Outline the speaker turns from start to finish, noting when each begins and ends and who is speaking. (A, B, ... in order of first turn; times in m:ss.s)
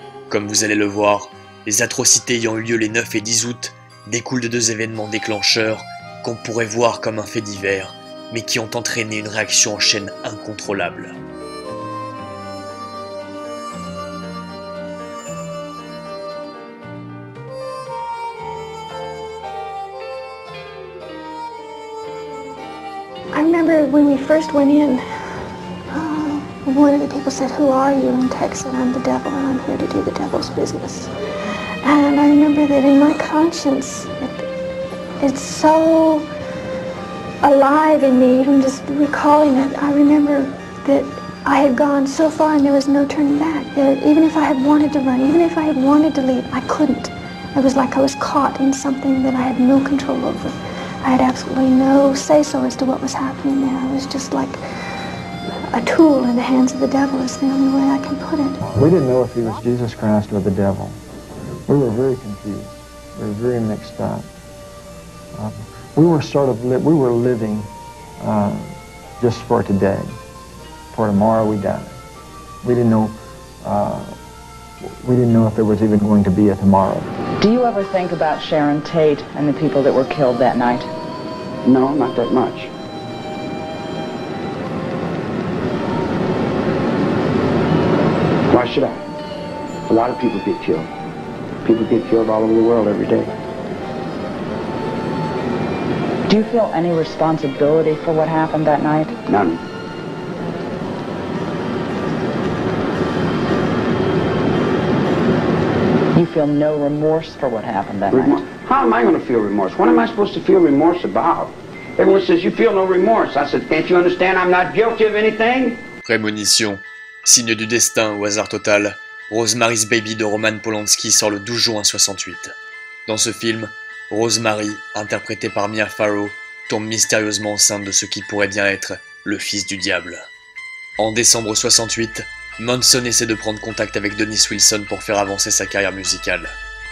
0:00.3-0:11.2 A
0:23.3-0:25.0 B
0:25.9-0:31.1 B
0:31.8-0:34.4 B
0:35.2-0:36.2 B
0:37.4-0:54.6 B
0:55.7-0:58.6 B
0:58.7-1:01.0 C
1:01.7-1:04.2 C
1:05.3-1:10.1 C
1:10.9-1:11.9 C
1:12.6-1:14.1 C
1:14.9-1:17.1 C
1:17.4-1:20.9 D
1:21.6-1:22.7 E
1:28.5-1:29.0 E
1:29.9-1:30.9 E
1:31.6-1:33.3 E
1:36.3-1:39.2 D
1:39.3-1:39.6 E
1:46.1-1:48.4 D
1:48.1-1:55.8 E
1:56.0-2:02.5 A
2:03.1-2:10.3 A
2:11.0-2:16.6 A